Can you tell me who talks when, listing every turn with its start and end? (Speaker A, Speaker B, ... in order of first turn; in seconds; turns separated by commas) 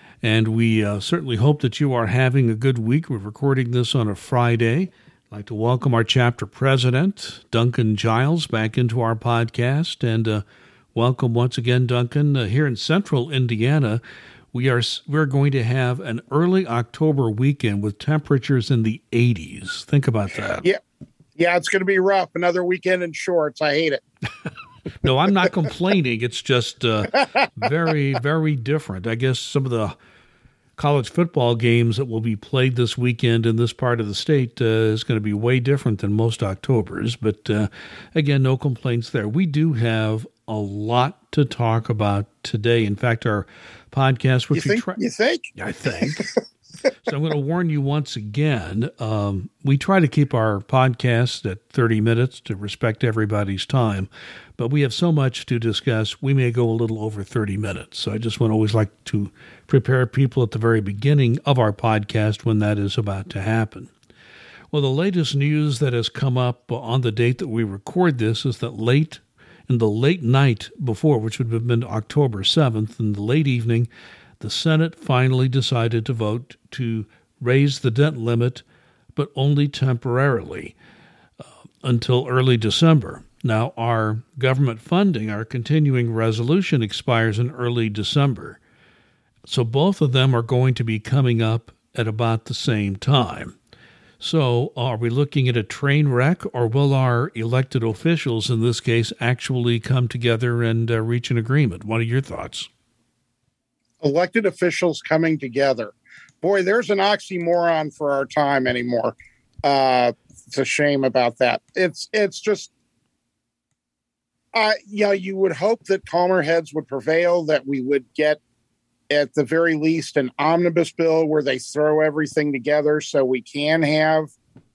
Speaker A: 0.2-14.0, Speaker A: 14.5-20.7, Speaker B: 21.4-24.0, Speaker A: 25.0-30.0, Speaker A: 30.8-45.0, Speaker B: 44.5-45.5, Speaker A: 45.5-46.2, Speaker A: 47.0-63.9, Speaker A: 64.7-73.9, Speaker A: 74.4-78.6, Speaker A: 79.1-80.7, Speaker A: 81.8-88.6, Speaker A: 89.5-93.5, Speaker A: 94.2-102.7, Speaker B: 104.0-112.7, Speaker B: 114.5-118.4, Speaker B: 119.1-124.3